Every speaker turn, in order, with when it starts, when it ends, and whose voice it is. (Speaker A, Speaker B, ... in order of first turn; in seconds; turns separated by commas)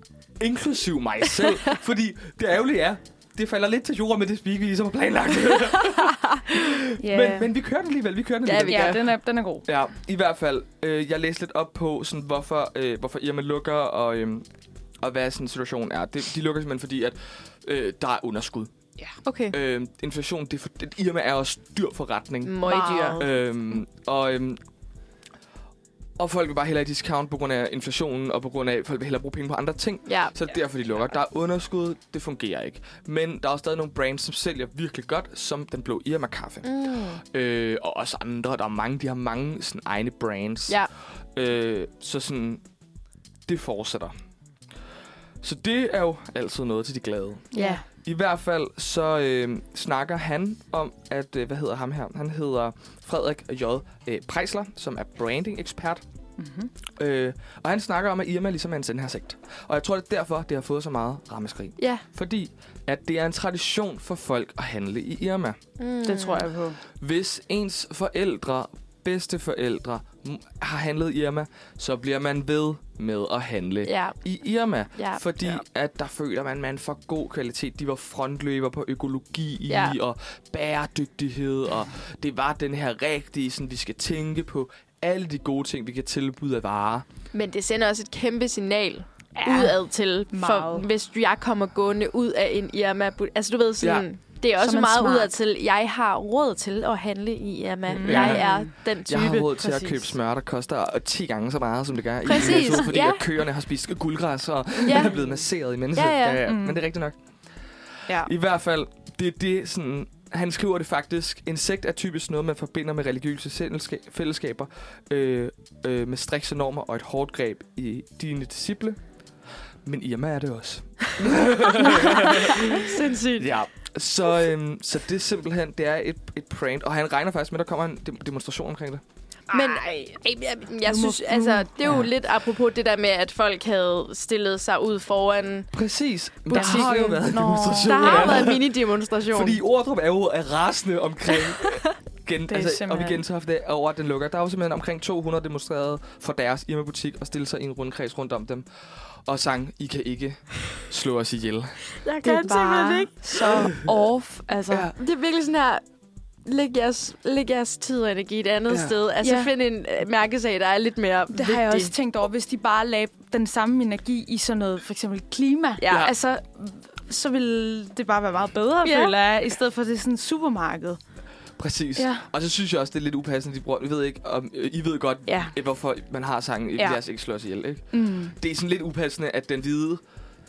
Speaker A: 0.4-14.4, Speaker B: 6.0-6.4, Speaker C: 7.0-7.5, Speaker B: 8.4-9.0, Speaker C: 8.7-9.6, Speaker A: 15.0-18.7, Speaker B: 19.2-19.6, Speaker A: 19.5-24.6, Speaker B: 22.4-23.2, Speaker C: 22.6-23.3, Speaker A: 26.2-42.6, Speaker B: 30.1-30.3, Speaker B: 36.6-37.2, Speaker A: 43.5-44.1, Speaker A: 45.4-47.5, Speaker C: 47.5-47.8, Speaker B: 47.5-47.8, Speaker A: 48.0-56.0, Speaker C: 56.4-56.7, Speaker A: 57.0-65.6, Speaker B: 61.8-62.0, Speaker B: 65.8-66.5, Speaker C: 66.0-66.8, Speaker A: 66.9-87.0, Speaker B: 73.8-74.2, Speaker B: 74.9-75.6, Speaker B: 79.7-80.0, Speaker B: 87.3-99.5, Speaker C: 89.3-89.8, Speaker C: 90.3-90.8, Speaker A: 93.8-94.1, Speaker C: 94.6-95.3, Speaker C: 97.9-98.7, Speaker A: 98.0-119.0, Speaker C: 99.6-100.1, Speaker B: 102.2-103.2, Speaker C: 102.4-102.7, Speaker B: 104.8-105.2, Speaker B: 105.9-106.4, Speaker C: 106.4-106.8, Speaker A: 119.8-129.0, Speaker B: 122.0-123.5, Speaker C: 129.5-130.0, Speaker B: 129.5-135.7, Speaker C: 130.8-132.0, Speaker A: 135.7-151.9, Speaker B: 136.5-137.2, Speaker C: 136.5-138.5, Speaker B: 137.8-139.6, Speaker C: 142.5-143.2, Speaker B: 151.9-153.7, Speaker C: 152.2-154.9, Speaker B: 154.9-155.8, Speaker B: 156.4-161.9, Speaker A: 158.7-159.0, Speaker C: 159.2-159.5, Speaker C: 161.3-171.0, Speaker B: 165.8-166.2, Speaker B: 168.8-169.1, Speaker A: 171.6-180.0, Speaker C: 171.9-172.3, Speaker C: 175.3-175.5, Speaker C: 177.9-178.3